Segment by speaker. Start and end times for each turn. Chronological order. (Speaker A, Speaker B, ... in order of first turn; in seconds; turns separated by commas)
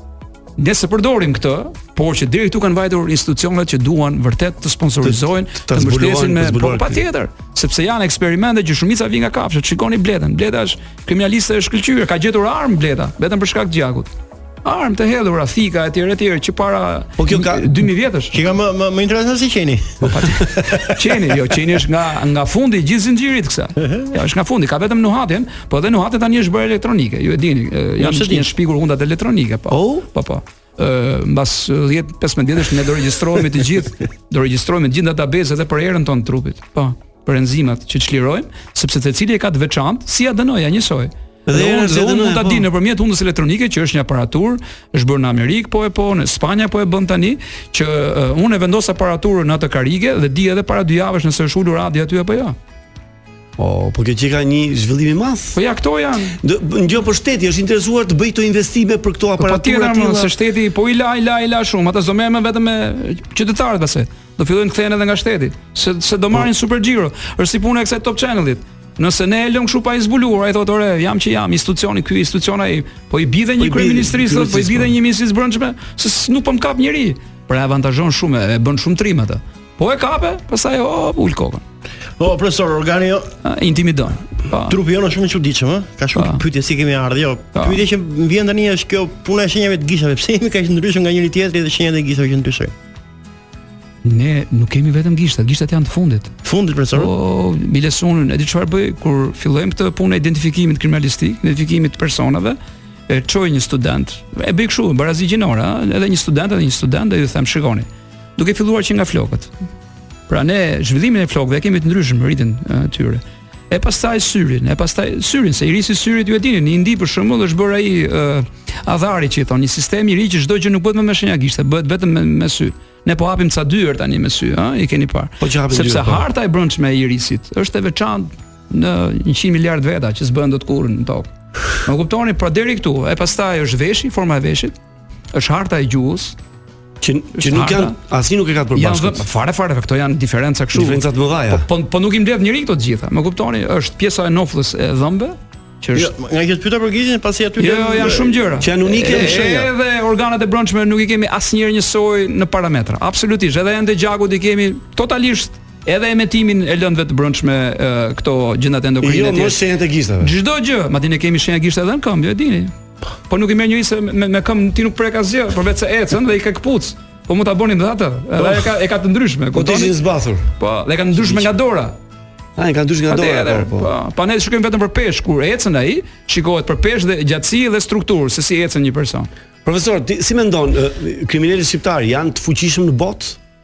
Speaker A: 0.6-14.1, Speaker B: 5.0-7.0, Speaker A: 14.6-18.4, Speaker B: 17.2-17.9, Speaker C: 18.3-20.1, Speaker A: 20.1-52.5, Speaker C: 28.0-28.5, Speaker B: 29.7-30.1, Speaker B: 41.5-42.7, Speaker B: 53.6-55.6, Speaker A: 55.5-56.4, Speaker B: 56.4-60.3, Speaker A: 59.4-81.6, Speaker B: 73.6-74.9, Speaker C: 82.2-83.3, Speaker A: 83.4-84.8, Speaker C: 84.7-92.7, Speaker A: 86.1-86.4, Speaker A: 87.5-87.8, Speaker A: 94.0-96.3, Speaker C: 96.4-97.1, Speaker A: 96.9-109.5, Speaker A: 110.3-131.3, Speaker B: 125.4-126.2, Speaker A: 131.8-134.7, Speaker A: 135.3-136.3, Speaker B: 137.0-139.2, Speaker A: 137.4-137.9, Speaker A: 138.7-146.1, Speaker B: 140.7-141.7, Speaker C: 145.9-149.7, Speaker A: 147.6-159.6, Speaker B: 148.6-149.5, Speaker B: 159.0-160.3, Speaker A: 160.2-162.7, Speaker A: 163.3-169.9, Speaker B: 169.5-170.5, Speaker A: 170.6-172.0, Speaker B: 171.1-171.5, Speaker B: 172.6-173.9, Speaker A: 173.1-179.3, Speaker B: 179.6-183.4